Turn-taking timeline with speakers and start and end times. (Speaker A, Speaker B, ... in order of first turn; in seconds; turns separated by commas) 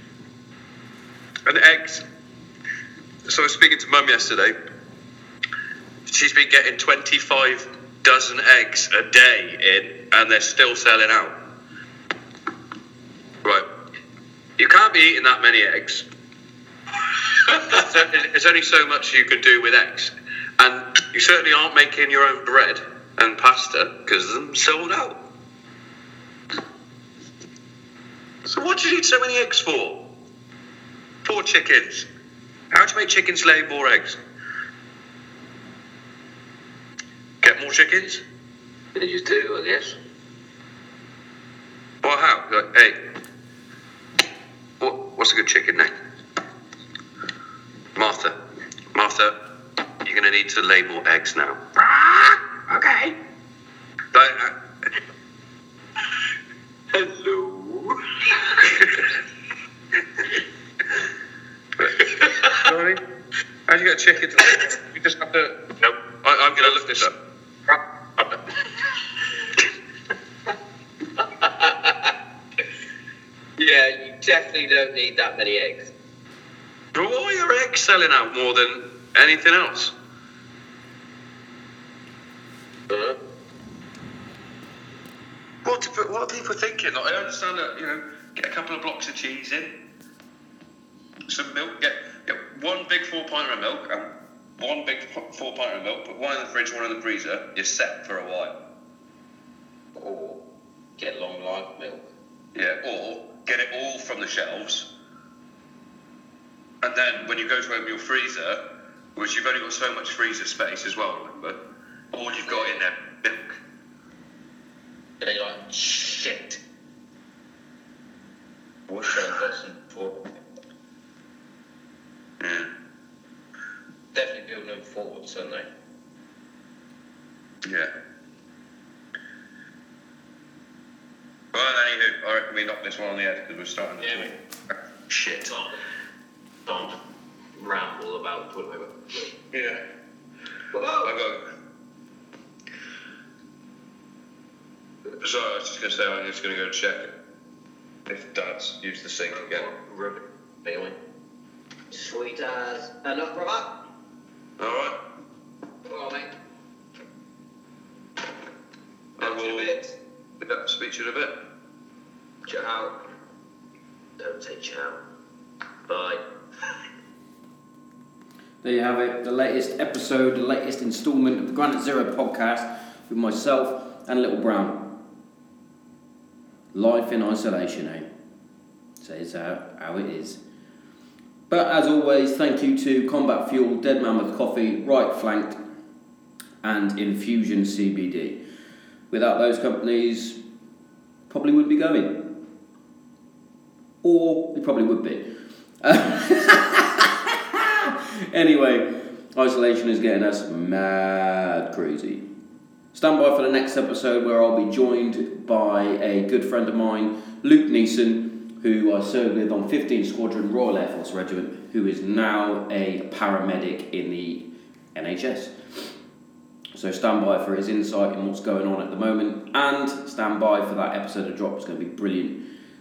Speaker A: 1.5-2.0, Speaker A: 3.3-4.5, Speaker A: 6.1-11.3, Speaker A: 14.6-16.1, Speaker A: 17.6-25.2, Speaker A: 28.5-30.0, Speaker A: 31.2-32.1, Speaker A: 32.7-34.2, Speaker A: 37.4-38.2, Speaker B: 39.0-40.0, Speaker A: 42.0-43.0, Speaker A: 44.8-46.0, Speaker A: 48.0-48.4, Speaker A: 48.9-49.4, Speaker A: 50.0-51.8, Speaker A: 54.1-54.5, Speaker B: 56.9-57.9, Speaker A: 58.6-59.1, Speaker A: 61.8-63.0, Speaker B: 62.2-62.6, Speaker A: 63.7-65.6, Speaker A: 66.2-67.1, Speaker B: 67.7-68.4, Speaker B: 71.2-72.1, Speaker B: 73.6-75.9, Speaker A: 77.0-79.9, Speaker B: 82.9-83.2, Speaker A: 85.6-89.8, Speaker A: 91.3-98.6, Speaker B: 100.0-100.4, Speaker B: 101.0-102.1, Speaker A: 102.5-104.9, Speaker A: 106.8-111.6, Speaker A: 112.1-113.5, Speaker B: 112.5-112.8, Speaker B: 115.2-116.6, Speaker B: 118.9-120.2, Speaker A: 122.4-122.7, Speaker B: 124.2-125.7, Speaker A: 127.6-127.9, Speaker A: 131.5-134.3, Speaker B: 134.0-134.3, Speaker B: 135.2-135.7, Speaker B: 136.7-137.0, Speaker B: 137.6-138.9, Speaker A: 139.5-139.8, Speaker B: 140.7-141.1, Speaker A: 141.0-141.4, Speaker A: 145.2-147.1, Speaker A: 148.1-149.7, Speaker B: 149.3-150.9, Speaker B: 151.9-153.8, Speaker A: 154.6-155.0, Speaker B: 155.9-156.3, Speaker A: 159.2-159.8, Speaker B: 159.2-159.8, Speaker A: 160.4-161.5, Speaker B: 162.5-162.9, Speaker B: 164.3-165.0, Speaker C: 168.6-174.9, Speaker C: 176.7-178.1, Speaker C: 179.0-180.4, Speaker C: 181.5-185.6, Speaker C: 186.6-188.4, Speaker C: 189.1-190.4, Speaker C: 191.3-192.3, Speaker C: 194.0-195.3, Speaker C: 195.8-202.2, Speaker C: 202.9-215.6, Speaker C: 216.8-222.4